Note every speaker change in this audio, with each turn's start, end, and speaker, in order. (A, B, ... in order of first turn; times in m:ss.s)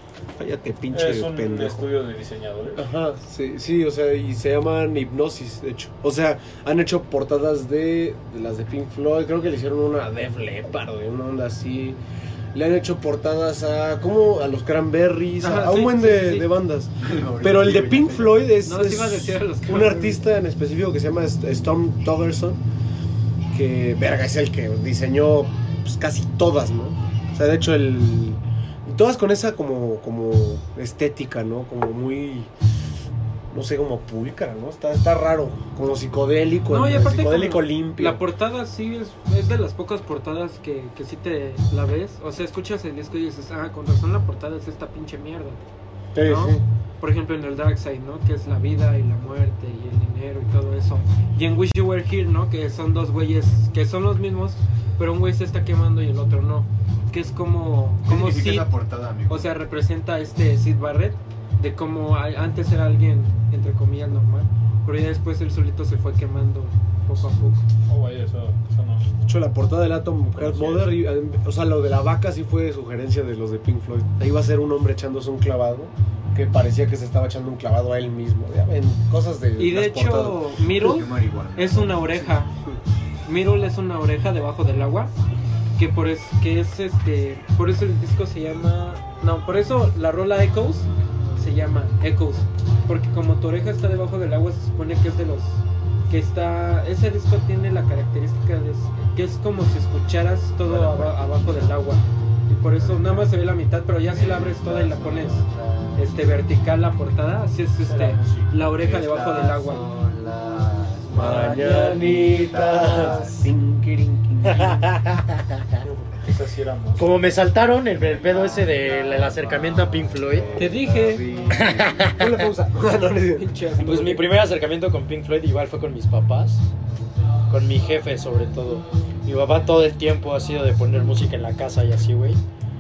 0:00.4-0:01.8 A
0:00.9-0:02.9 B
0:02.8-0:12.0 A
0:12.5-0:22.6 A
0:15.4-0:16.5 C
0:17.0-0:18.5 D
0:18.6-0:20.2 C
0:23.5-0:32.5 A
0:33.5-0:38.2 A
0:36.7-0:45.6 C
0:46.2-0:46.6 A
0:46.2-0:58.7 C
0:58.0-0:59.6 D
0:59.3-1:07.6 C
1:07.9-1:09.3 B
1:09.3-1:20.5 A
1:10.4-1:10.9 B
1:19.6-1:22.5 C
1:20.7-1:22.3 D
1:23.2-1:25.1 C
1:25.8-1:45.4 C
1:40.6-1:41.8 D
1:42.7-1:43.4 D
1:44.1-1:46.4 D
1:46.0-1:49.9 C
1:47.8-1:53.5 D
1:51.2-1:54.9 A
1:51.2-1:52.1 C
1:52.9-1:53.1 C
1:54.4-1:55.8 E
1:55.9-1:57.2 B
1:57.0-2:00.5 E
1:57.9-2:02.2 D
2:00.6-2:01.3 C
2:01.5-2:02.4 E
2:02.2-2:03.5 A
2:03.3-2:04.4 C
2:03.8-2:06.7 E
2:07.5-2:12.4 E